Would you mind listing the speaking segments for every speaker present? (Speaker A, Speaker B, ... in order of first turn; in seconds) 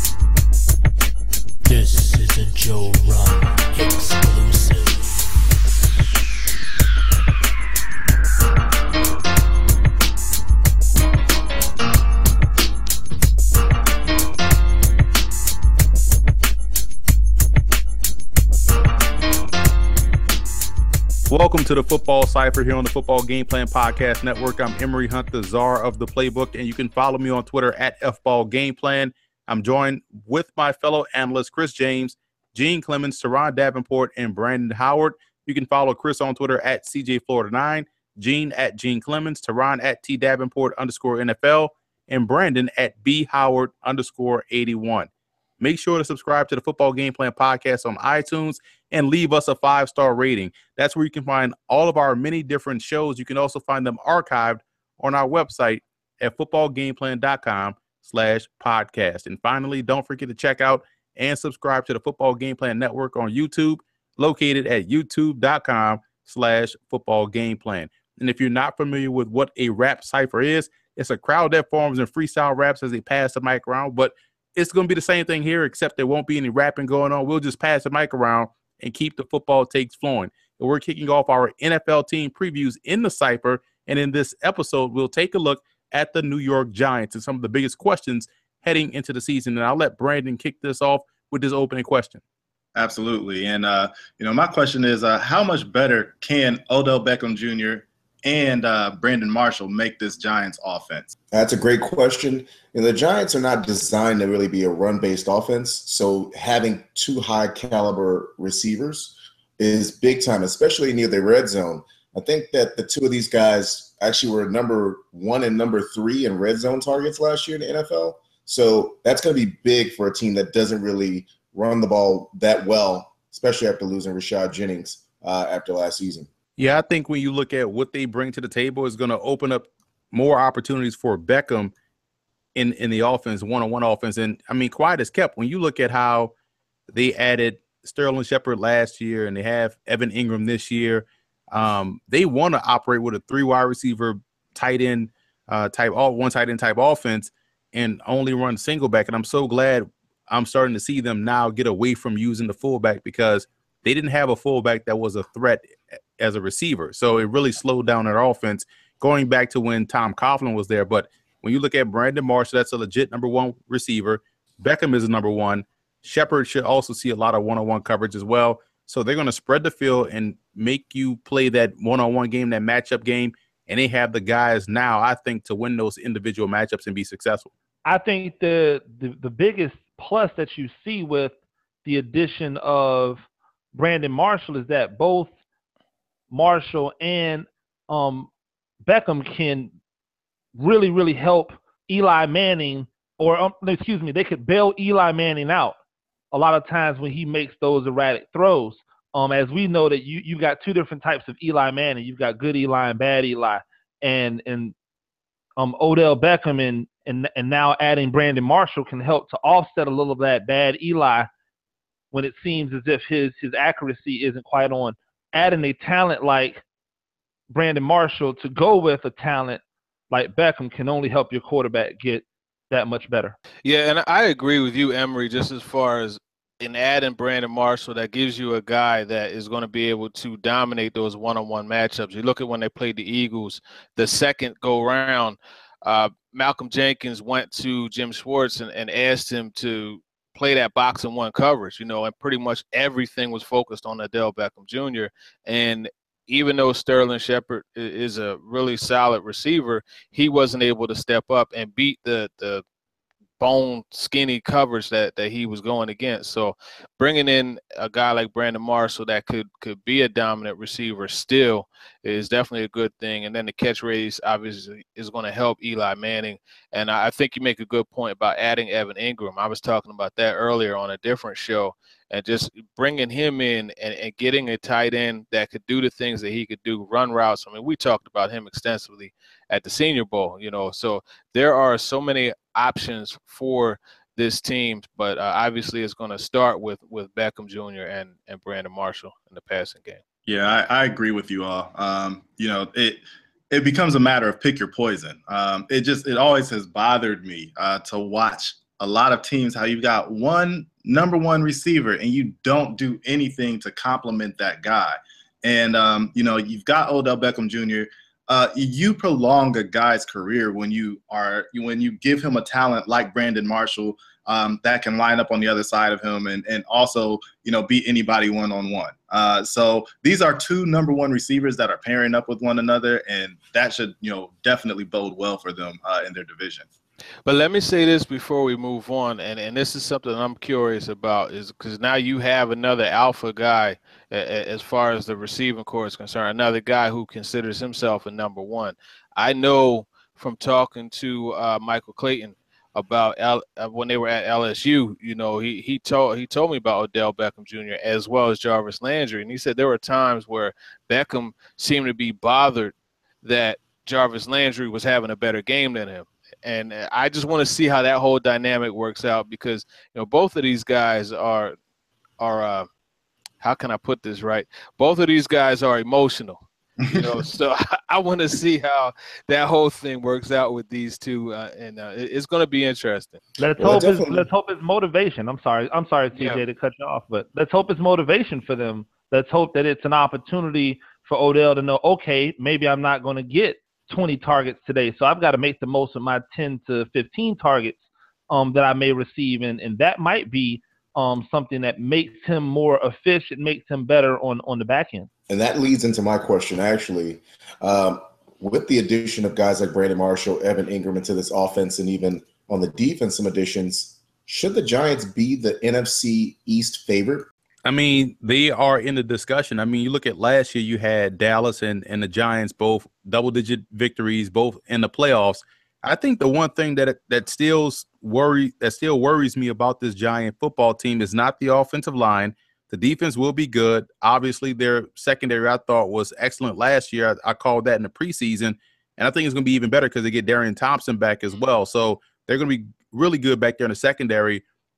Speaker A: 1.7-5.3
Speaker B: 21.3-45.1, 45.6-92.2, 126.6-131.7, 132.6-136.3, 136.9-177.5, 407.6-434.4
Speaker C: 92.8-101.1, 290.3-326.7, 366.8-367.2
Speaker D: 101.3-126.3, 373.6-374.3, 395.3-407.3
Speaker E: 177.8-181.3, 181.8-183.2, 183.7-185.3, 186.3-188.3, 188.8-189.7, 190.6-195.8, 196.3-204.7, 205.6-211.3, 212.1-216.6, 217.5-223.4, 373.4-387.8, 388.3-395.1
Speaker F: 223.7-252.6, 253.4-290.0, 327.3-361.6, 362.2-362.7, 363.4-373.2, 376.2-376.4